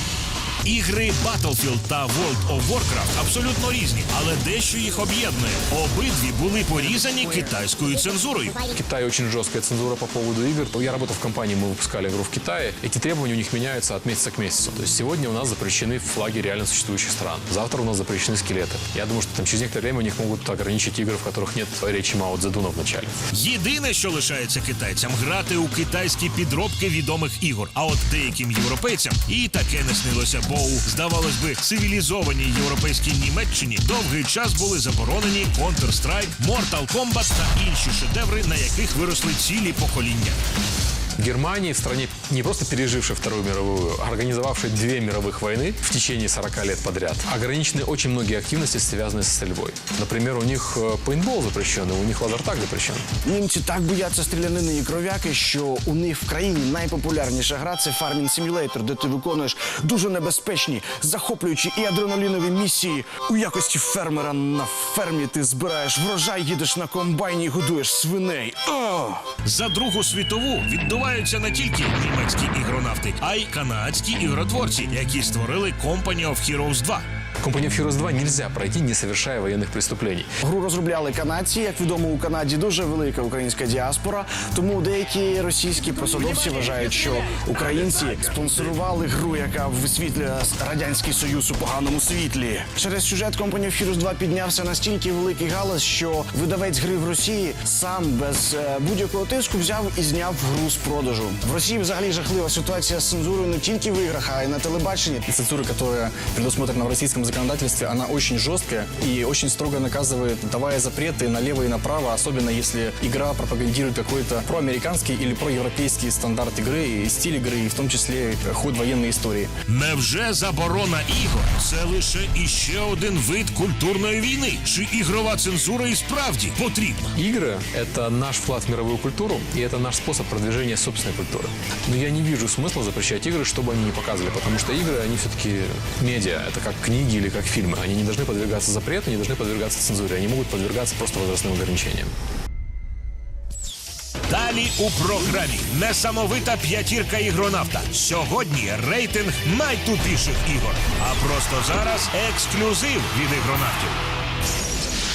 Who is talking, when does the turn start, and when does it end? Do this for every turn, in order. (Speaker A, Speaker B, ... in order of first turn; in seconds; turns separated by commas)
Speaker A: 0.6-8.6, Speaker B: 8.7-23.1, Speaker A: 23.3-40.4, Speaker B: 41.2-53.1, Speaker C: 53.2-69.2, Speaker A: 69.4-77.0, Speaker B: 77.4-80.3, Speaker C: 80.4-105.2, Speaker D: 105.3-119.5, Speaker A: 119.7-127.1, Speaker B: 127.2-142.1, Speaker A: 144.3-154.0